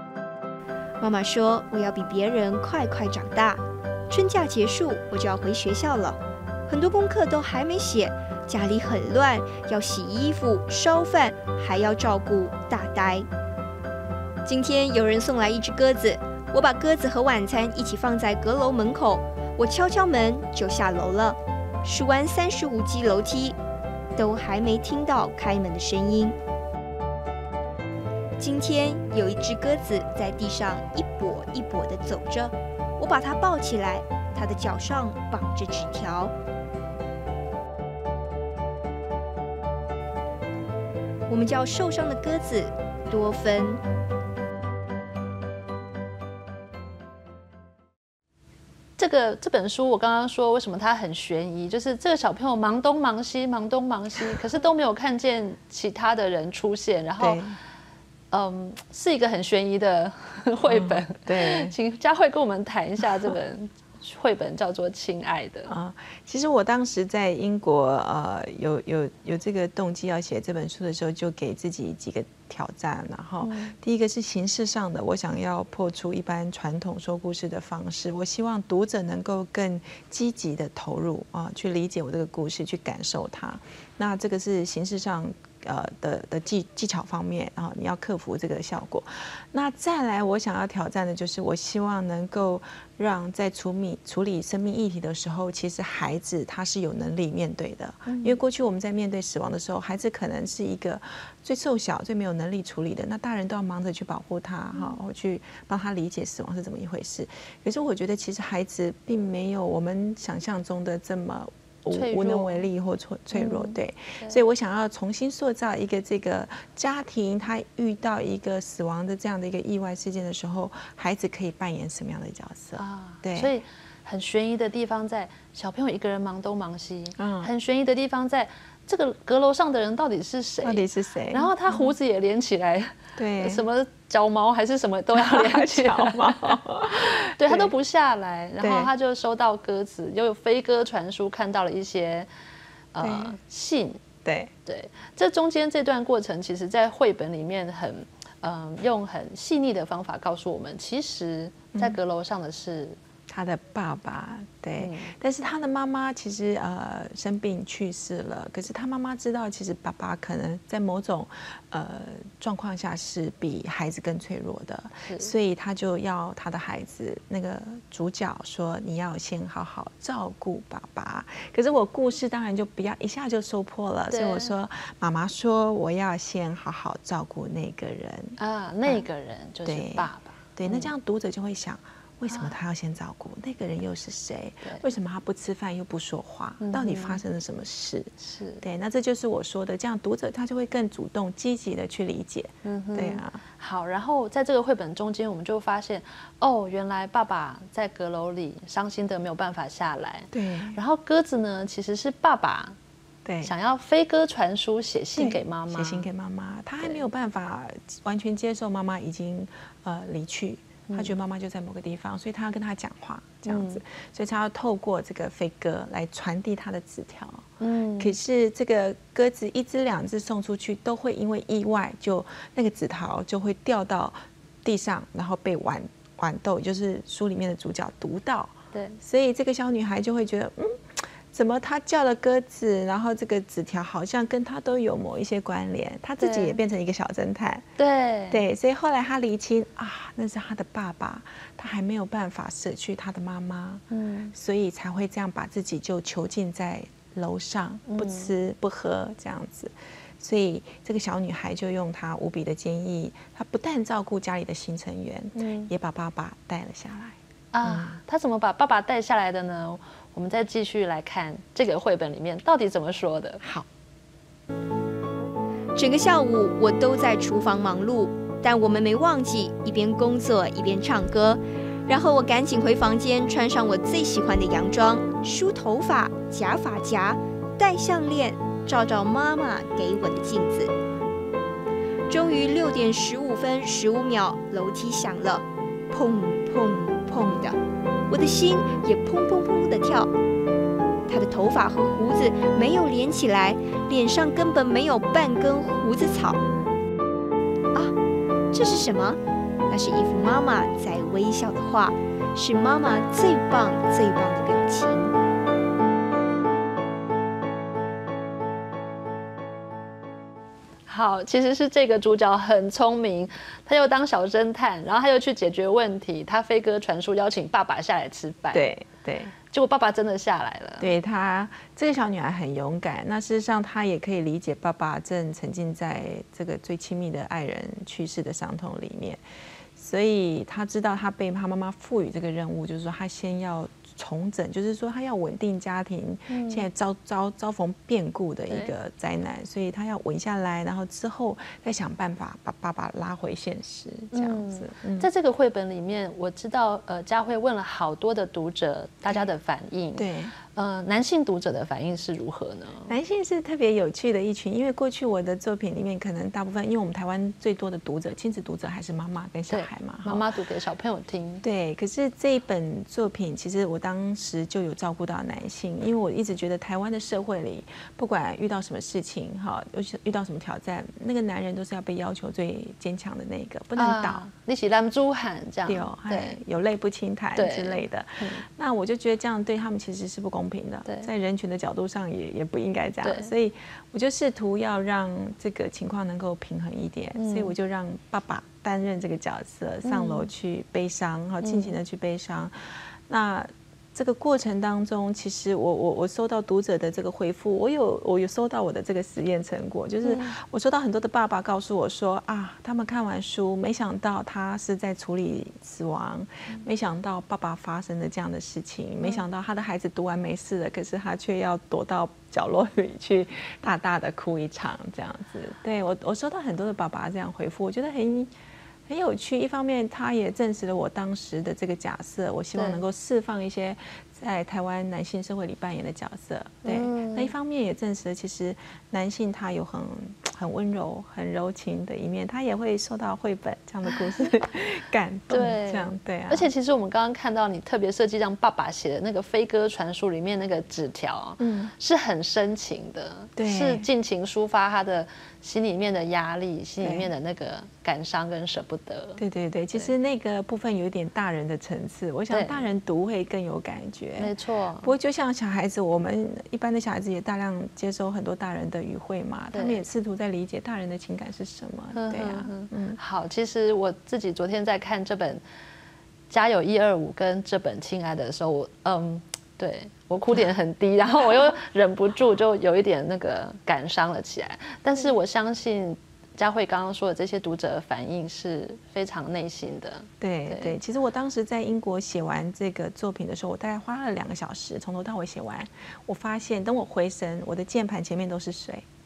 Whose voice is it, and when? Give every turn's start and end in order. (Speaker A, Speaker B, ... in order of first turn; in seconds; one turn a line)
Speaker A: 1.0-13.3
Speaker A: 14.4-23.6
Speaker A: 24.1-26.4
Speaker A: 28.4-36.3
Speaker A: 41.3-43.8
Speaker B: 49.0-57.4
Speaker C: 57.2-57.6
Speaker B: 58.3-65.7
Speaker C: 60.6-61.7
Speaker C: 65.7-123.5
Speaker B: 73.4-73.8
Speaker B: 98.1-98.4
Speaker B: 111.9-112.7
Speaker B: 113.3-114.4
Speaker B: 122.7-142.3
Speaker C: 127.2-127.5
Speaker C: 130.6-131.9
Speaker C: 133.2-133.7
Speaker C: 135.1-137.7
Speaker C: 138.6-138.9
Speaker B: 142.9-144.0
Speaker C: 143.0-143.4
Speaker C: 144.2-144.5
Speaker B: 144.7-153.0
Speaker C: 153.3-179.0
Speaker B: 154.8-155.1
Speaker B: 165.0-165.3
Speaker B: 174.1-174.5
Speaker B: 178.4-180.9
Speaker C: 179.6-193.4
Speaker B: 182.3-182.6
Speaker B: 186.6-187.2
Speaker B: 188.2-188.6
Speaker B: 192.6-202.8
Speaker C: 200.3-200.8
Speaker C: 203.2-203.5
Speaker B: 203.4-206.1
Speaker C: 205.2-217.4
Speaker B: 210.9-211.1
Speaker B: 213.4-213.8
Speaker B: 217.6-218.1
Speaker C: 218.0-237.6
Speaker B: 228.7-229.0
Speaker B: 236.2-236.6
Speaker B: 237.8-238.4
Speaker C: 238.3-243.8
Speaker B: 243.9-244.3
Speaker C: 244.3-258.0
Speaker B: 247.9-248.3
Speaker B: 255.4-255.7
Speaker B: 257.5-263.4
Speaker C: 263.4-263.7
Speaker A: 265.8-280.7
Speaker A: 282.1-287.6
Speaker A: 288.1-290.1
Speaker A: 291.1-296.4
Speaker A: 298.5-299.2
Speaker A: 299.7-305.1
Speaker B: 310.9-318.7
Speaker C: 318.5-319.3
Speaker B: 319.5-320.9
Speaker C: 320.8-329.2
Speaker C: 329.8-345.1
Speaker B: 336.3-336.7
Speaker B: 344.1-352.9
Speaker C: 350.0-350.3
Speaker C: 352.9-360.2
Speaker B: 359.5-361.4
Speaker C: 361.4-374.2
Speaker B: 373.8-376.4
Speaker C: 375.6-418.3
Speaker B: 377.4-378.4
Speaker B: 383.0-383.3
Speaker B: 387.1-387.6
Speaker B: 389.8-390.3
Speaker B: 391.4-391.8
Speaker B: 400.0-400.3
Speaker C: 418.9-436.5
Speaker B: 422.5-422.8
Speaker B: 426.6-427.3
Speaker B: 433.9-434.3
Speaker B: 435.3-449.2
Speaker C: 441.4-441.7
Speaker C: 443.4-443.9
Speaker C: 446.8-447.1
Speaker C: 449.2-463.0
Speaker B: 452.3-452.6
Speaker B: 454.2-454.9
Speaker B: 459.5-459.8
Speaker B: 461.9-465.4
Speaker B: 466.3-480.8
Speaker C: 480.2-488.8